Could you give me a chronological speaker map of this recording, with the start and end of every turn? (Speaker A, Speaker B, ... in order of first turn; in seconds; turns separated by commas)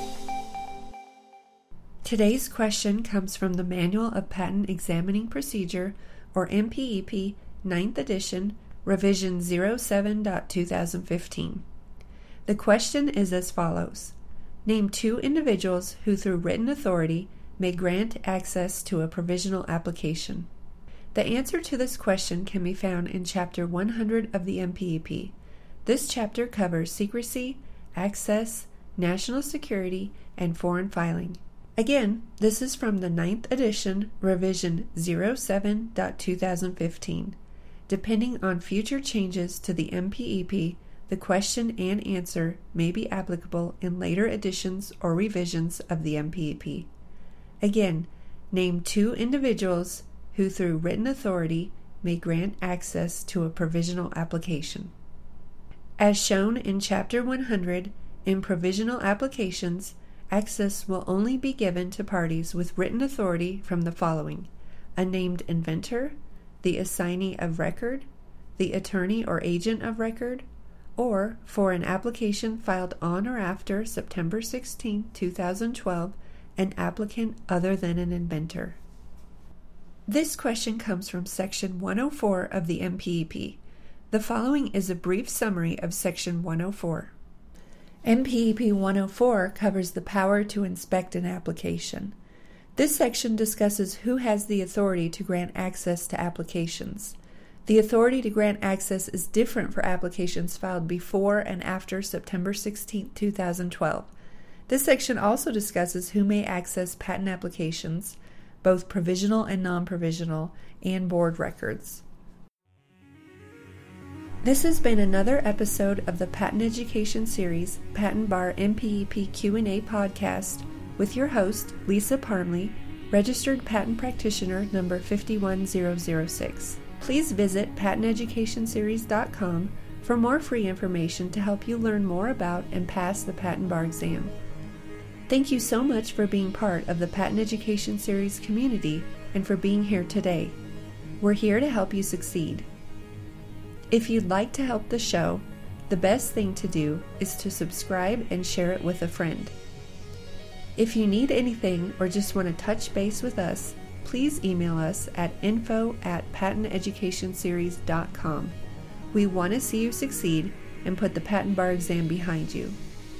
Speaker A: 2.0-11.6, Speaker A: 12.4-20.5, Speaker A: 21.1-25.3, Speaker A: 25.8-37.4, Speaker A: 37.9-46.9, Speaker A: 47.6-54.9, Speaker A: 56.0-70.5, Speaker A: 71.0-78.8, Speaker A: 80.1-83.6, Speaker A: 84.1-87.1, Speaker A: 88.0-92.1, Speaker A: 92.8-104.1, Speaker A: 104.7-112.0, Speaker A: 114.4-134.3, Speaker A: 135.3-140.6, Speaker A: 141.2-142.7, Speaker A: 143.9-149.5, Speaker A: 150.8-158.6, Speaker A: 159.1-162.8